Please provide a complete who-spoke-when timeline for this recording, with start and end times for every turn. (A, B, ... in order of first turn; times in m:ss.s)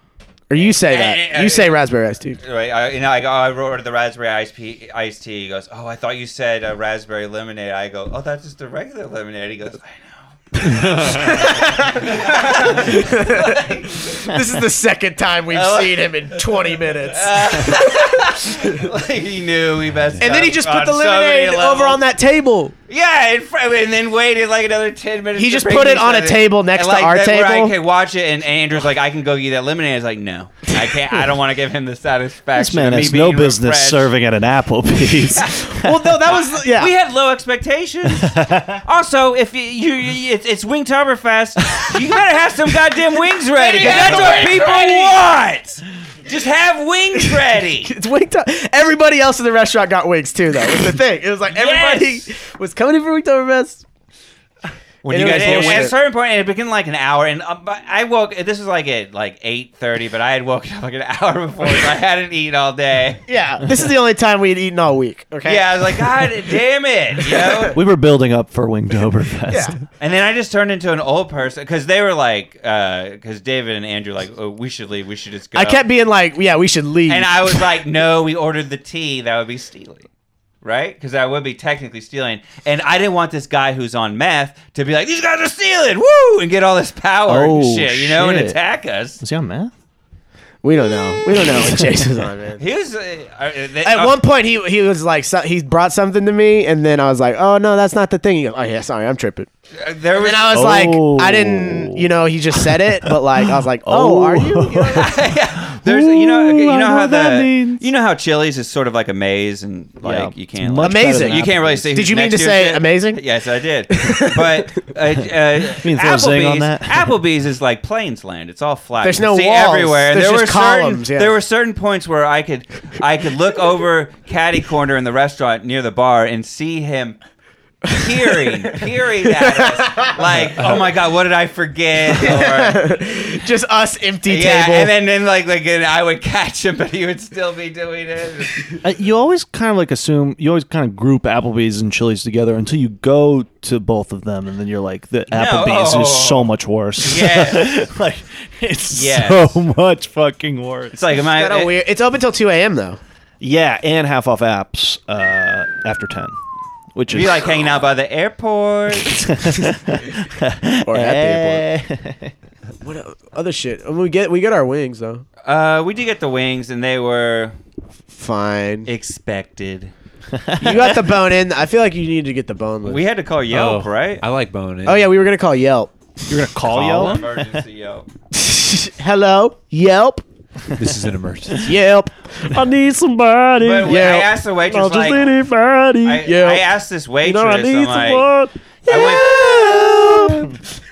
0:00.5-0:02.4 A
0:00.6-0:01.8 B
0:02.4-0:13.9 B
0:10.6-0:11.1 C
0:11.0-0:18.9 A
0:15.5-0:16.4 B
0:17.1-0:22.0 B
0:20.2-0:22.8 A
0:22.9-0:34.1 B
0:25.4-0:27.8 A
0:32.5-0:36.2 D
0:35.8-0:36.9 A
0:36.3-0:47.9 B
0:38.0-0:38.8 D
0:43.5-0:45.2 A
0:43.8-0:44.4 D
0:47.8-0:53.8 A
0:51.5-0:52.3 B
0:55.0-0:55.9 C
0:55.1-0:56.0 A
0:55.2-1:03.2 B
1:03.3-1:06.1 A
1:05.4-1:07.8 B
1:07.2-1:07.7 A
1:07.7-1:09.8 D
1:09.5-1:09.8 A
1:10.0-1:15.8 B
1:15.6-1:17.7 A
1:17.1-1:20.1 B
1:20.6-1:29.2 B
1:27.3-1:28.6 D
1:29.2-1:29.7 D
1:30.6-1:32.6 A
1:31.4-1:32.0 D
1:32.6-1:34.2 B
1:33.8-1:39.5 A
1:39.8-1:40.8 B
1:40.1-1:45.2 A
1:40.5-1:47.9 D
1:44.9-2:07.2 B
1:50.0-1:51.9 D
1:50.8-1:53.2 A
1:53.9-1:54.7 A
1:55.8-1:57.2 D
1:59.0-2:01.4 A
2:07.9-2:12.8 B
2:09.3-2:10.2 A
2:12.1-2:14.9 A
2:14.2-2:18.8 B
2:18.8-2:31.1 D
2:25.3-2:27.9 B
2:28.9-2:29.6 B
2:30.9-2:31.8 B
2:31.2-2:33.0 A
2:33.4-2:36.4 D
2:36.9-2:37.7 D
2:37.1-2:39.4 B
2:39.0-2:42.3 D
2:40.8-2:41.7 A
2:42.8-2:45.2 A
2:45.4-2:47.5 B
2:48.1-2:48.9 A
2:48.9-2:49.9 B
2:50.3-2:51.0 D
2:50.6-2:53.0 A
2:52.8-2:54.2 B
2:53.5-2:55.1 C
2:54.9-2:55.9 A
2:56.3-2:57.6 D
2:56.7-2:58.1 B
2:58.3-3:00.2 A
3:00.8-3:01.7 C
3:01.6-3:06.6 A
3:03.6-3:05.3 B
3:06.0-3:08.3 B
3:07.2-3:10.6 A
3:08.8-3:09.7 B
3:08.9-3:10.6 D